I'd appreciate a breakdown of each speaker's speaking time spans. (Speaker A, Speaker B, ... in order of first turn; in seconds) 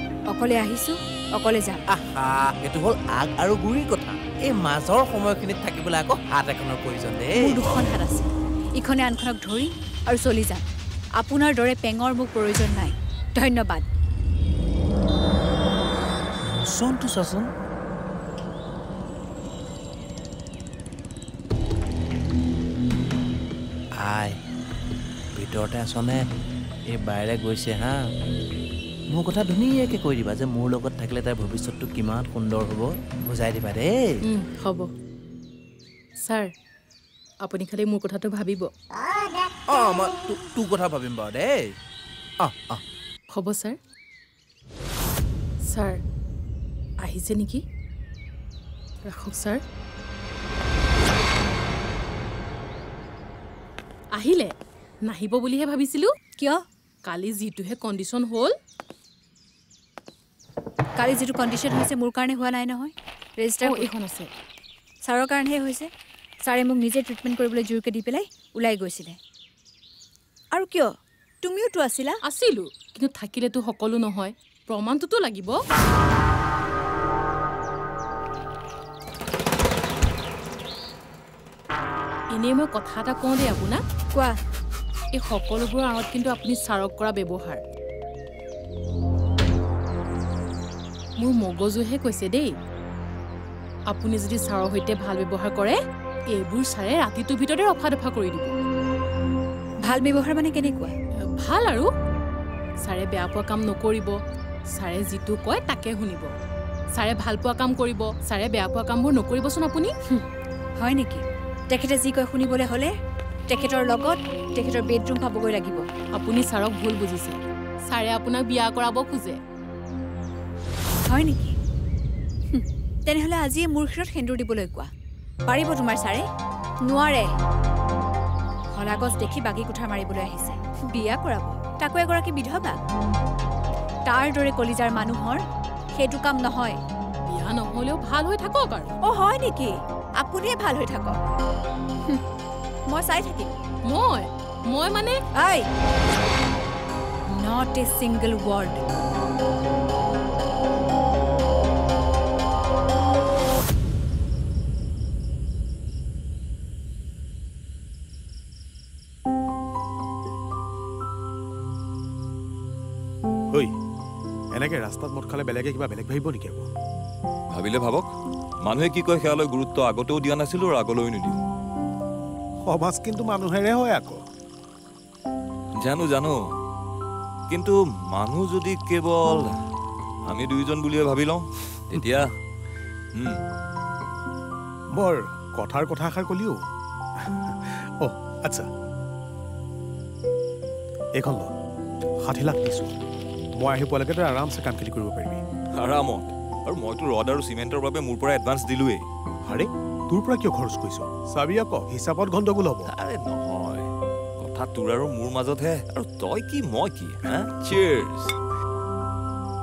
Speaker A: 0.3-1.8, 7.4-10.7, 11.2-13.8, 56.4-56.6, 61.0-63.9, 65.0-65.9, 66.4-69.2, 70.5-72.2, 99.8-100.9, 110.8-112.9, 113.5-115.8, 121.0-121.5, 122.5-124.9, 125.5-126.3, 126.9-127.3, 128.7-132.8, 134.1-136.8, 139.0-141.2, 142.9-143.5, 145.4-145.7, 147.3-148.8
Speaker B: 1.9-7.7, 16.4-17.5, 23.9-24.4, 25.4-26.3, 26.9-28.1, 29.1-34.2, 39.7-41.8, 42.4-42.8
Speaker C: 34.2-34.9, 36.2-36.5, 37.4-38.7, 43.3-43.8, 45.7-46.0, 47.0-47.6, 49.0-49.6, 54.1-54.5, 55.0-56.1, 57.0-58.5, 63.6-64.3, 72.2-75.6, 82.3-83.8, 85.1-87.6, 91.2-92.6, 93.9-95.8, 96.3-98.5, 101.4-101.9, 102.8-104.1, 104.8-106.3, 106.9-109.9, 116.2-117.4, 117.9-119.4, 137.3-138.9, 143.9-145.2
Speaker D: 164.5-166.7, 172.7-174.2, 184.9-186.6, 187.2-188.7, 191.2-191.5, 192.2-192.9, 193.6-195.4, 199.5-202.9
Speaker E: 167.5-168.1, 168.6-171.4, 175.8-176.4, 177.5-179.4, 180.3-182.3, 195.8-199.1, 202.8-208.3